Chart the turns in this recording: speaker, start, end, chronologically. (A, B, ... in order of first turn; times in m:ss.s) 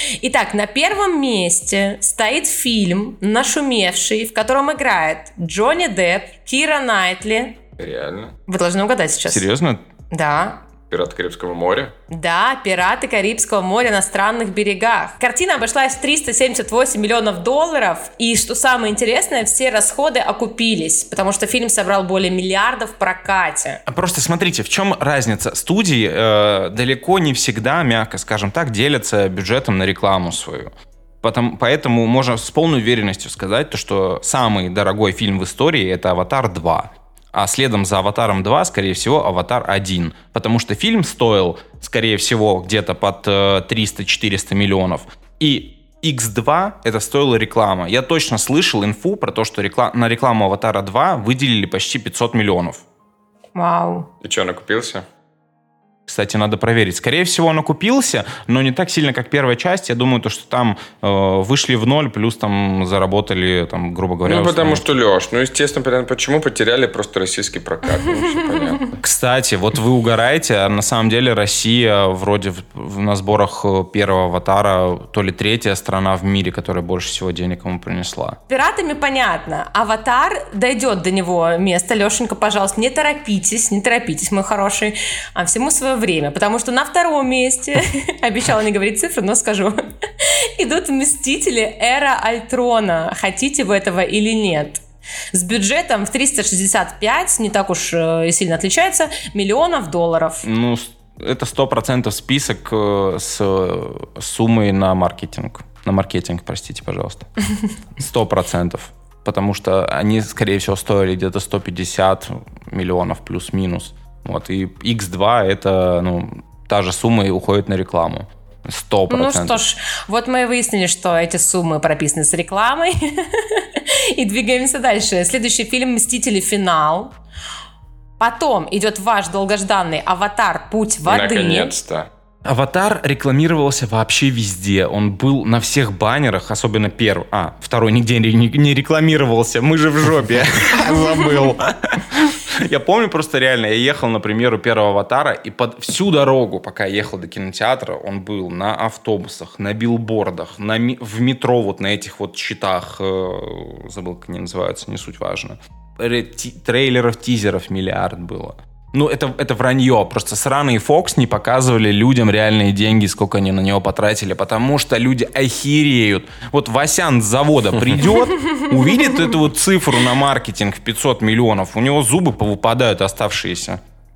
0:00.2-0:07.6 A
0:07.8-0:08.3 B
0:08.5-0:09.4 A
0:09.3-0:09.8 C
0:10.1-0:10.6 A
0:10.9-0:11.9 B
0:12.1-0:23.8 A
0:23.9-0:30.7 C
0:31.2-0:52.8 C
0:53.5-0:54.1 A
0:54.2-0:55.0 B
0:56.1-1:04.8 C
1:04.2-1:09.0 B
1:09.0-1:18.4 C
1:18.5-1:34.8 A
1:35.3-1:40.4 A
1:40.4-1:47.3 C
1:48.0-1:59.6 C
1:59.1-2:07.1 A
2:08.2-2:11.7 A
2:11.0-2:12.1 B
2:12.4-2:53.8 C
2:21.0-2:21.5 A